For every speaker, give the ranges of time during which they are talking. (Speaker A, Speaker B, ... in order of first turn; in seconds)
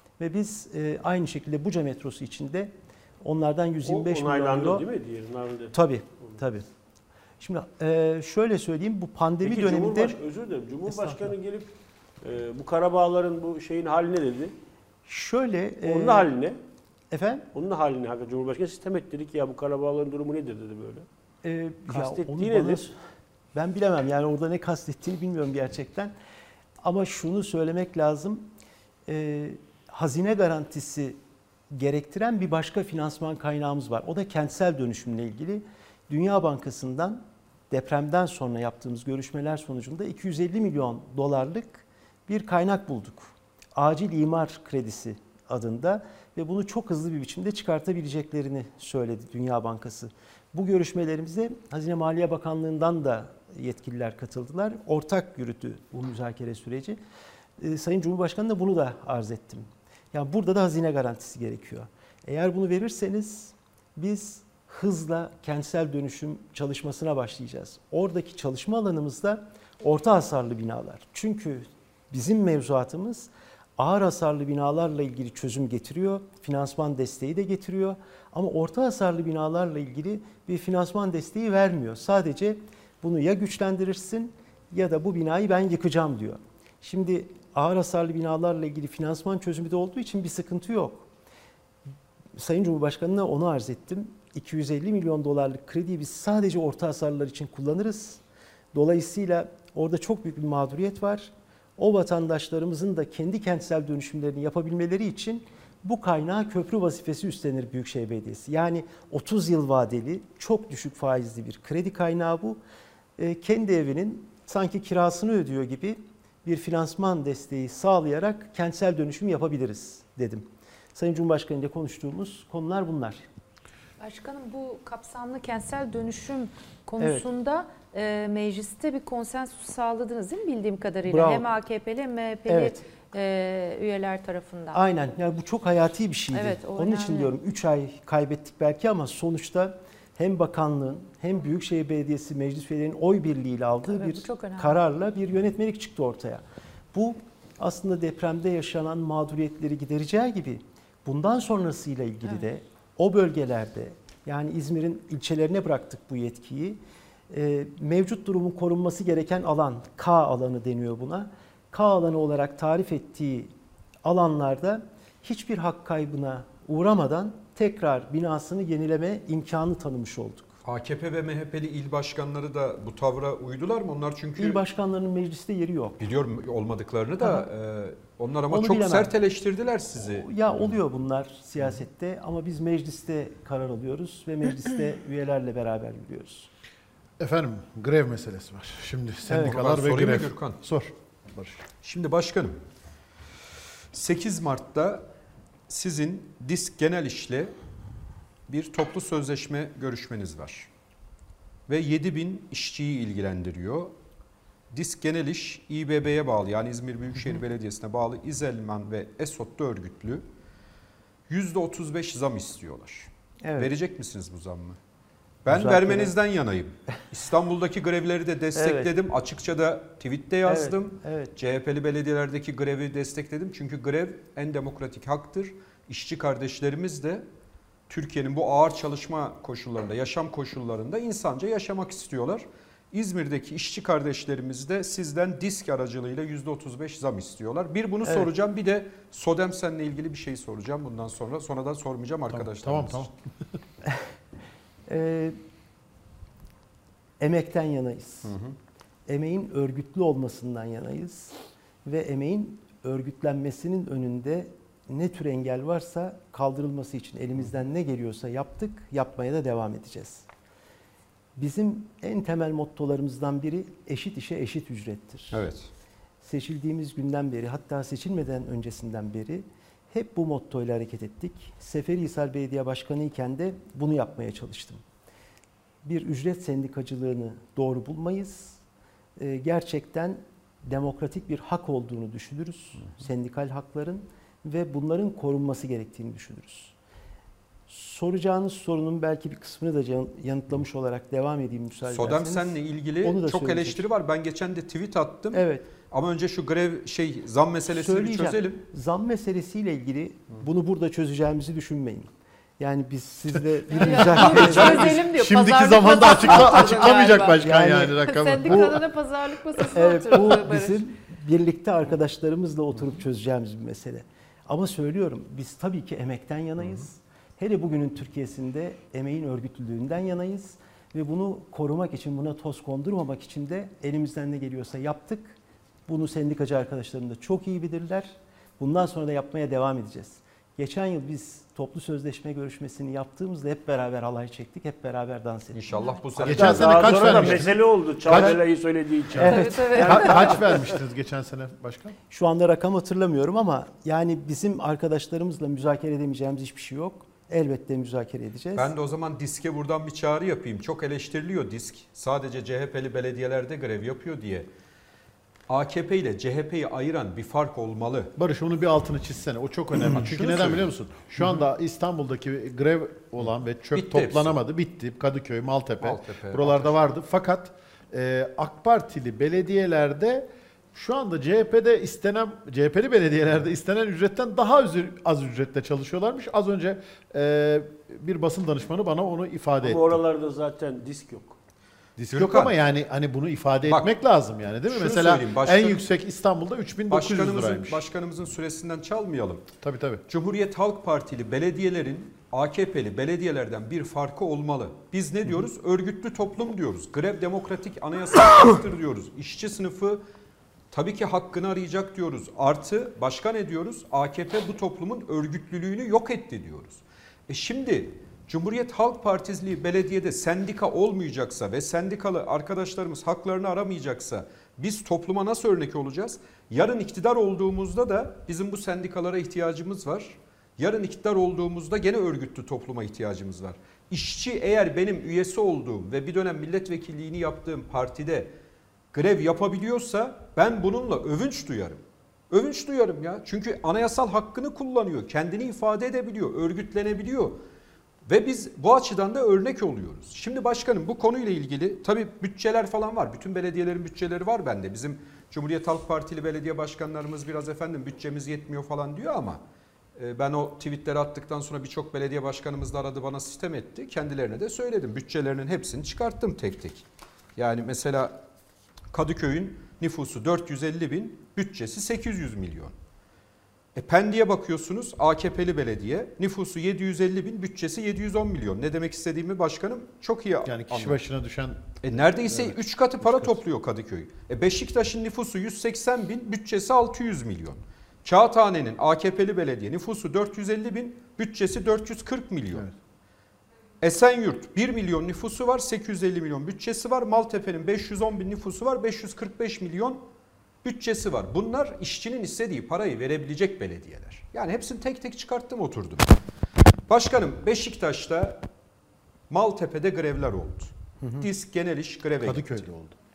Speaker A: 0.2-4.9, 5.7-6.7, 7.4-10.2, 10.8-11.3, 15.1-16.3, 17.1-17.5, 21.4-22.9, 23.5-26.1, 26.8-28.5, 29.1-31.2, 31.7-57.0, 57.6-91.1, 92.3-98.2, 98.7-112.6, 113.2-123.2, 127.0-127.3, 131.1-131.4, 132.5-132.8, 134.7-163.5, 164.0-170.5, 174.4-176.1, 177.2-177.4, 178.5-179.1, 179.9-186.5, 189.3-189.5, 213.4-213.7, 215.5-216.1, 218.5-218.9, 220.4-221.3, 244.9-245.4, 247.2-248.3, 249.1-260.2, 261.4-265.4, 266.2-274.8, 275.8-278.6, 279.2-286.7, 287.7-293.9, 295.3-295.7, 297.7-305.0, 306.4-308.0, 309.7-335.6, 337.0-337.4, 338.1-338.4, 339.1-340.4, 342.1-348.7, 501.0-501.3
Speaker B: 3.9-5.7, 9.4-14.5, 15.8-16.6, 17.5-21.1, 21.9-22.9, 336.2-339.6, 379.6-381.4
Speaker C: 124.0-134.8, 136.3-137.4, 143.9-144.8, 303.7-307.4, 308.0-310.8, 339.2-340.4
Speaker D: 170.6-174.6, 176.0-180.3, 189.4-190.6, 191.8-192.6, 193.9-195.1, 195.7-197.5, 198.5-200.7, 201.7-203.9, 204.7-210.2, 211.3-214.8, 215.4-227.2, 227.9-243.1, 248.3-248.6, 265.3-265.7, 291.9-298.6, 335.5-337.2, 348.6-354.5, 355.5-358.1, 359.9-360.7, 363.7-364.4, 365.8-366.8, 382.1-382.6, 383.6-383.9, 384.7-385.8, 386.9-389.5, 390.1-400.0, 400.7-428.3, 428.9-437.4, 438.1-449.4, 449.9-456.8, 457.4-458.2, 458.9-462.7, 463.7-471.0, 471.8-482.7, 483.8-490.0, 490.6-496.1, 496.9-498.4, 499.3-502.6
Speaker E: 187.2-191.6, 242.3-243.1, 304.8-308.8, 336.2-338.4, 339.7-341.9, 358.2-380.0, 382.0-387.8, 389.6-390.0, 470.4-471.6, 472.2-473.4, 502.2-502.9